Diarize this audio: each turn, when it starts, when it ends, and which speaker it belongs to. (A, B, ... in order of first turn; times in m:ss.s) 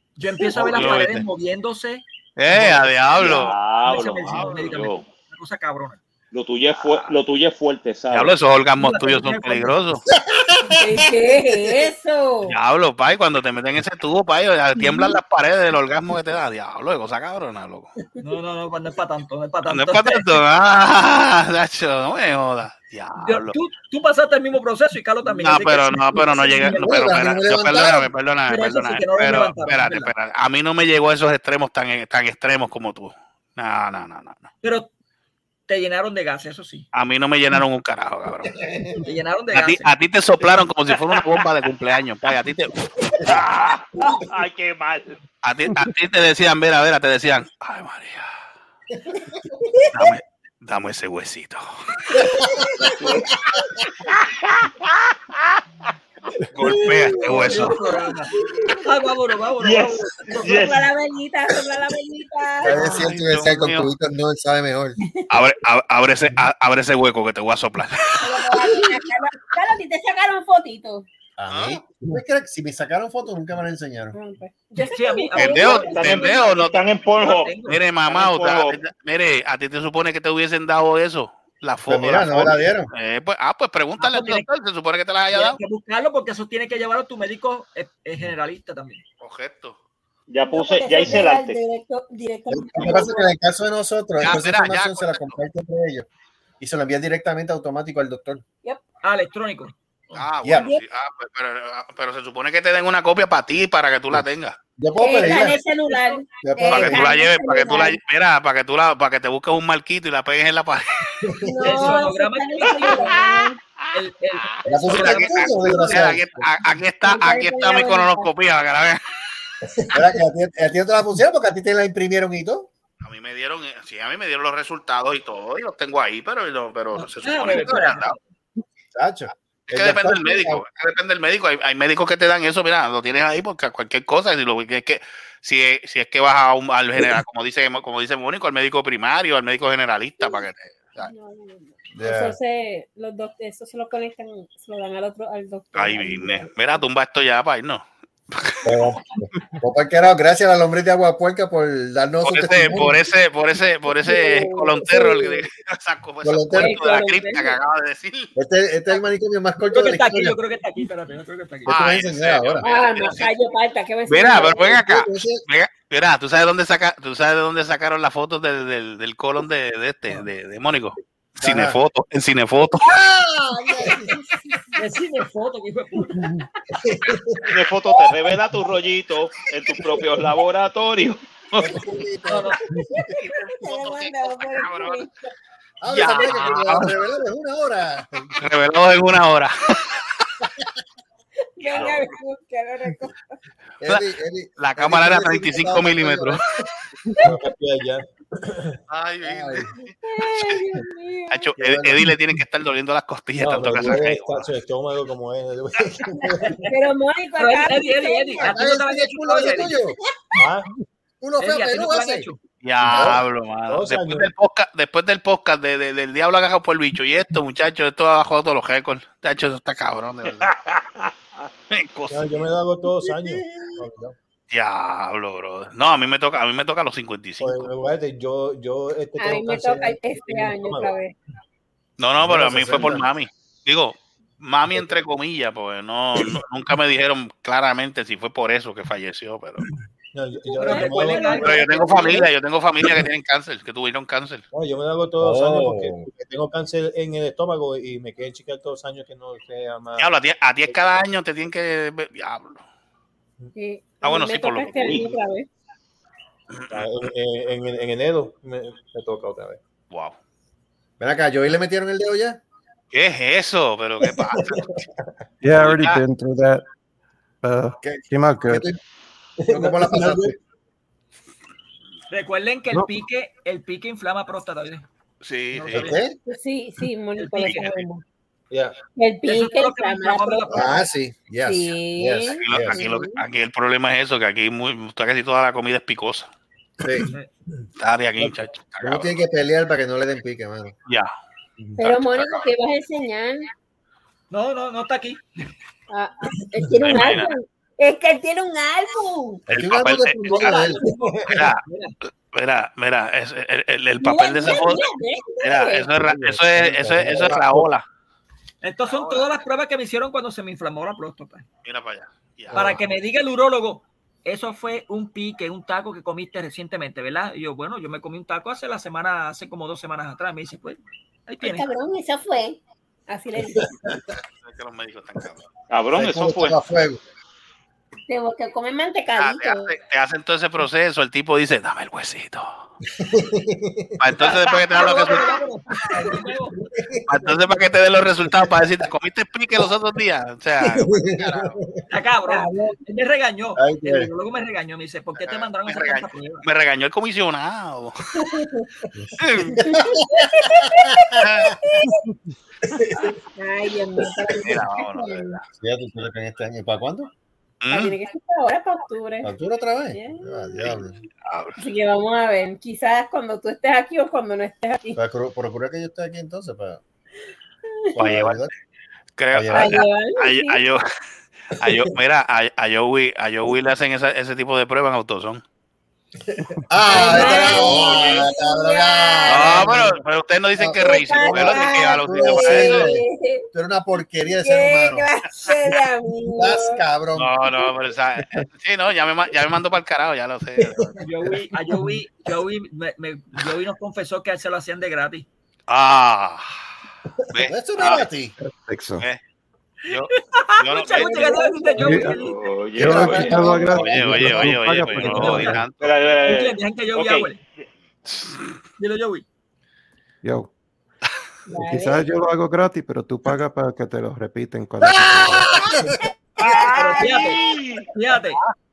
0:00.2-0:06.0 A
0:00.5-0:01.3 B
0:02.4-0:03.6 B
0:03.2-0:05.1 C
0:04.2-0:04.8 B
0:06.3-0:08.4 C
0:06.8-0:07.1 B
0:08.1-0:10.1 B
0:08.8-0:09.8 A
0:10.2-0:11.2 D
0:10.7-0:12.6 E
0:12.4-0:17.9 B
0:14.9-0:15.2 E
0:18.2-0:20.4 A
0:19.7-0:23.6 B
0:23.2-0:26.9 A
0:25.3-0:34.5 B
0:26.7-0:28.1 D
0:28.5-0:30.1 A
0:34.6-0:34.9 A
0:35.7-0:36.9 A
0:36.9-0:38.6 B
0:38.5-0:39.0 D
0:39.0-0:39.9 A
0:39.5-0:43.4 B
0:41.1-0:41.4 C
0:43.2-0:45.2 C
0:45.4-0:48.3 B
0:49.1-0:49.5 D
0:49.9-0:51.6 B
0:52.1-0:53.0 E
0:52.2-0:53.6 D
0:53.0-0:53.3 C
0:54.1-0:54.9 C
0:56.5-0:57.8 B
0:56.7-0:57.2 D
0:57.2-1:00.7 A
0:57.3-0:58.0 E
0:59.6-1:00.9 C
1:00.5-1:02.8 E
1:02.6-1:05.0 D
1:02.6-1:03.9 B
1:05.3-1:08.6 B
1:08.2-1:11.1 E
1:11.4-1:14.2 D
1:11.5-1:11.8 B
1:14.1-1:16.4 E
1:14.8-1:17.8 A
1:15.3-1:16.8 B
1:15.9-1:18.8 C
1:17.7-1:25.6 B
1:21.9-1:22.9 D
1:24.0-1:24.5 A
1:25.3-1:29.0 A
1:29.2-1:29.8 B
1:30.3-1:31.6 C
1:30.5-1:33.3 E
1:32.5-1:36.1 D
1:34.2-1:35.4 B
1:36.6-1:38.4 D
1:39.0-1:40.2 A
1:40.1-1:44.6 B
1:40.4-1:40.7 D
1:40.6-1:40.8 E
1:44.8-1:45.6 D
1:45.0-1:48.0 E
1:46.4-1:47.0 D
1:46.6-1:51.2 B
1:51.3-1:51.9 D
1:51.4-1:53.6 E
1:51.6-1:53.2 A
1:52.7-1:53.5 C
1:53.9-1:56.0 A
1:54.7-1:56.5 D
1:54.9-1:59.0 B
1:57.0-1:58.3 E
1:59.9-2:02.7 D
2:03.0-2:08.2 B
2:06.9-2:08.2 A
2:08.9-2:10.6 D
2:09.7-2:21.1 B
2:21.0-2:26.5 E
2:21.9-2:22.4 D
2:25.7-2:28.9 B
2:28.6-2:33.0 D
2:32.2-2:38.3 B
2:33.9-2:35.4 E
2:36.2-2:36.8 D
2:36.5-2:37.6 E
2:38.4-2:40.4 D
2:39.7-2:41.7 A
2:41.7-2:42.7 D
2:41.7-2:43.3 B
2:42.6-2:44.8 E
2:44.1-2:52.9 B
2:44.4-2:45.4 D
2:51.4-2:51.8 D
2:52.8-2:54.8 D
2:53.6-2:54.8 E
2:54.8-2:56.3 A
2:56.8-2:57.5 D
2:57.5-3:01.8 C
3:01.6-3:02.6 D
3:02.2-3:02.6 A
3:02.8-3:05.2 E
3:03.6-3:05.0 B
3:05.8-3:08.4 D
3:05.9-3:07.0 B
3:08.4-3:10.0 B
3:11.6-3:13.4 E
3:11.6-3:12.1 B
3:13.8-3:16.4 D
3:14.6-3:16.4 B
3:17.2-3:18.8 F
3:18.9-3:20.0 B
3:19.2-3:19.7 D
3:20.0-3:21.5 E
3:21.3-3:24.5 B
3:21.6-3:22.1 D
3:23.4-3:26.7 F
3:26.1-3:28.5 E
3:27.4-3:29.8 A
3:28.4-3:30.0 D
3:30.4-3:30.7 F
3:31.2-3:32.3 D
3:31.4-3:32.4 A
3:32.6-3:40.5 B
3:32.8-3:33.2 D
3:33.7-3:34.3 F
3:40.4-3:41.1 C
3:41.7-3:42.5 B
3:42.1-3:44.1 F
3:43.1-3:44.1 D
3:44.5-3:47.7 B
3:47.4-3:51.0 F
3:49.2-3:51.2 E
3:52.0-3:59.7 B
3:52.2-3:53.0 D
3:52.7-3:53.0 F
4:00.1-4:01.5 F
4:00.5-4:02.3 E
4:00.6-4:02.3 A
4:01.4-4:04.4 B
4:04.5-4:10.1 F
4:05.2-4:06.1 D
4:10.0-4:12.6 B
4:13.5-4:15.5 E
4:14.0-4:15.1 B
4:16.5-4:17.0 B
4:16.7-4:19.6 F
4:19.9-4:20.2 B
4:21.0-4:22.4 D
4:22.9-4:24.8 B
4:24.4-4:24.8 F
4:25.4-4:26.6 G
4:25.6-4:26.0 B
4:27.4-4:28.7 G
4:27.8-4:28.8 D
4:29.5-4:30.4 F
4:29.5-4:30.4 D
4:32.1-4:34.9 A
4:35.2-4:36.0 B
4:35.5-4:36.0 A
4:35.7-4:36.2 D
4:36.3-4:38.0 E
4:37.2-4:37.8 A
4:37.4-4:37.7 B
4:38.5-4:38.8 F
4:39.0-4:40.8 E
4:39.2-4:40.9 A
4:40.5-4:42.8 D
4:41.4-4:43.2 E
4:42.4-4:46.3 B
4:46.8-4:47.1 D
4:47.8-4:49.1 B
4:48.8-4:50.8 D
4:50.9-4:51.1 B
4:51.8-4:53.5 E
4:51.8-4:52.5 B
4:54.3-4:55.2 A
4:55.9-4:59.5 E
4:56.8-4:57.3 B
4:59.5-5:00.8 D
4:59.5-5:00.2 B
5:00.3-5:02.0 A
5:01.3-5:01.6 B
5:02.3-5:04.8 B
5:04.0-5:05.9 E
5:05.4-5:07.8 B
5:06.1-5:07.6 D
5:06.9-5:07.4 F
5:08.6-5:11.4 A
5:08.9-5:09.3 B
5:11.6-5:12.8 B
5:12.5-5:21.7 A
5:21.4-5:23.8 E
5:23.4-5:24.0 D
5:24.4-5:25.5 B
5:25.7-5:26.6 C
5:25.9-5:27.0 D
5:28.1-5:29.7 E
5:29.2-5:32.6 B
5:33.0-5:33.9 D
5:34.0-5:35.3 B
5:34.2-5:36.6 A
5:35.9-5:37.4 D
5:37.1-5:41.6 B
5:40.6-5:41.6 D
5:41.9-5:46.5 A
5:42.3-5:42.8 E
5:43.6-5:44.1 D
5:45.2-5:48.0 B
5:48.9-5:51.6 D
5:49.2-5:49.6 B
5:49.6-5:52.0 E
5:51.2-5:51.6 B
5:52.6-5:53.2 D
5:53.4-5:55.4 E
5:54.3-5:55.4 B
5:55.6-5:57.1 D
5:57.6-5:58.0 B
5:57.7-5:59.3 E
5:59.2-6:01.0 D
5:59.9-6:00.9 E
6:00.6-6:01.6 B
6:01.6-6:05.0 E
6:05.0-6:06.8 D
6:08.0-6:08.4 B
6:08.0-6:08.5 D
6:09.2-6:10.8 B
6:09.3-6:09.8 D
6:09.5-6:10.6 E
6:11.5-6:15.4 B
6:16.7-6:20.0 D
6:16.9-6:19.8 E
6:16.9-6:18.2 B
6:19.3-6:23.0 B
6:20.6-6:25.1 D
6:20.8-6:23.5 E
6:24.4-6:26.8 E
6:26.4-6:27.7 D
6:27.2-6:31.0 B
6:30.6-6:31.0 D
6:31.0-6:35.3 A
6:35.7-6:36.5 B
6:37.3-6:38.1 B
6:37.4-6:38.4 D
6:38.4-6:39.0 G
6:39.9-6:41.4 B
6:39.9-6:43.6 A
6:40.9-6:42.1 E
6:41.8-6:42.2 G
6:42.2-6:43.6 C
6:42.8-6:45.6 G
6:43.3-6:43.6 E
6:43.6-6:46.0 B
6:44.9-6:45.6 A
6:45.8-6:47.7 C
6:46.2-6:47.4 A
6:48.1-6:48.4 B
6:48.8-6:49.2 A
6:50.2-6:50.5 G
6:51.5-6:52.1 E
6:51.5-6:55.7 G
6:54.8-6:56.0 D
6:56.4-6:57.9 C
6:56.7-6:57.4 A
6:57.9-6:58.4 A